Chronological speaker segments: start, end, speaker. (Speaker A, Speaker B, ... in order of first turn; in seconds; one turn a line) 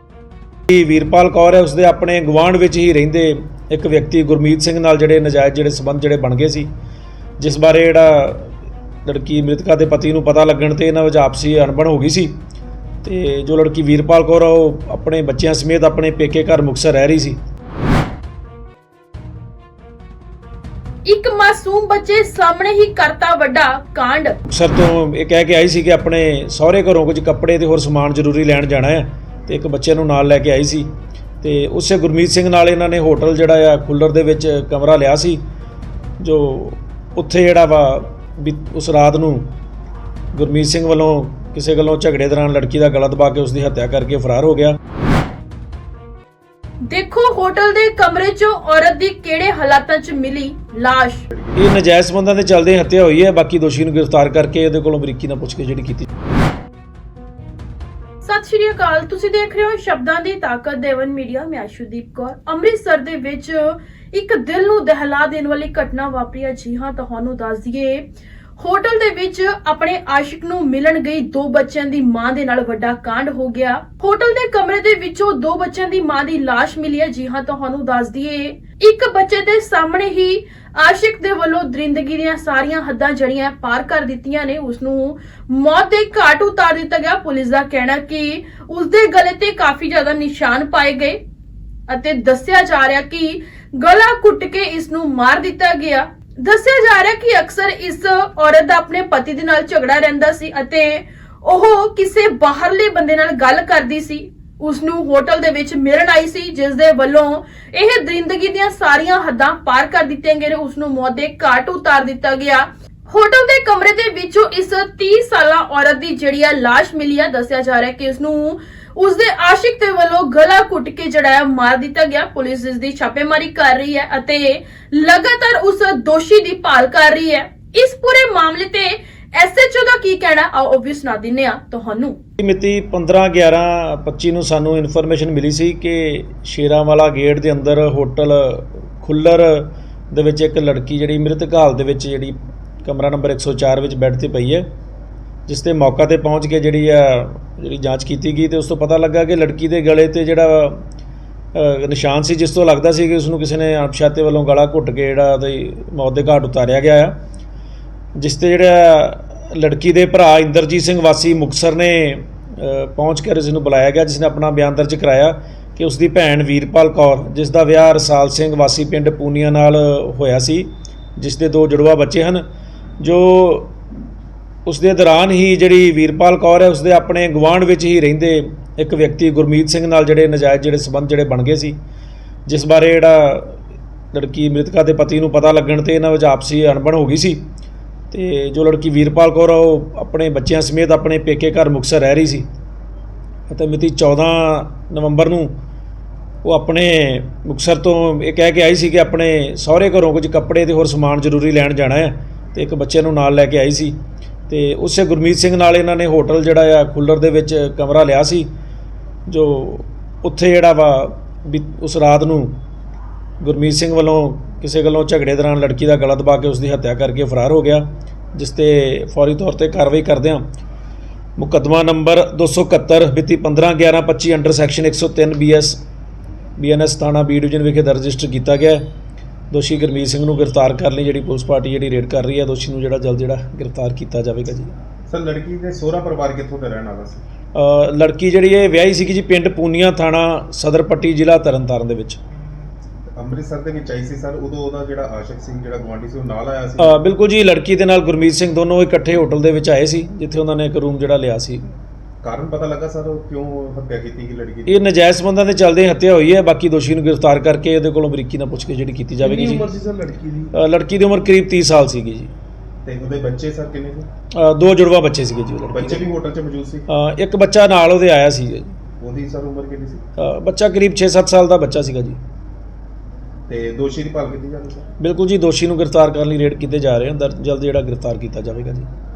Speaker A: 0.7-6.7
Speaker A: 7.4-8.5
Speaker A: 9.0-12.4
Speaker A: 13.0-17.4
Speaker B: 21.1-24.4
Speaker A: 24.5-30.9
Speaker A: 31.4-35.4
Speaker A: 36.2-39.5
Speaker A: 40.3-44.8
Speaker B: 46.9-51.2
Speaker C: 51.3-51.6
Speaker A: 51.5-56.1
Speaker B: 58.2-91.2
Speaker B: 91.9-132.2
Speaker A: 132.4-144.7
Speaker A: 145.5-150.8
Speaker A: 151.5-157.2
Speaker A: 158.2-172.4
Speaker A: 173.0-173.7
Speaker A: 174.7-181.8
Speaker A: 182.4-183.6
Speaker A: 184.1-187.4
Speaker A: 188.1-192.5
Speaker A: 193.5-195.5
Speaker A: 196.4-203.9
Speaker A: 204.5-208.5
Speaker A: 209.3-212.6
Speaker A: 213.4-220.4
Speaker A: 221.4-225.8
Speaker A: 226.6-228.8
Speaker A: 229.5-234.7
Speaker C: 235.1-237.2
Speaker A: 237.5-242.2
Speaker C: 243.1-247.0
Speaker A: 246.8-251.6
Speaker C: 252.2-254.8
Speaker A: 254.7-259.6
Speaker C: 259.2-260.5
Speaker A: 260.5-262.3
Speaker C: 262.8-264.1
Speaker A: 264.3-266.1
Speaker C: 265.7-266.9
Speaker A: 266.9-268.7
Speaker C: 269.0-270.0
Speaker A: 270.2-272.2
Speaker C: 273.5-274.9
Speaker A: 275.0-278.9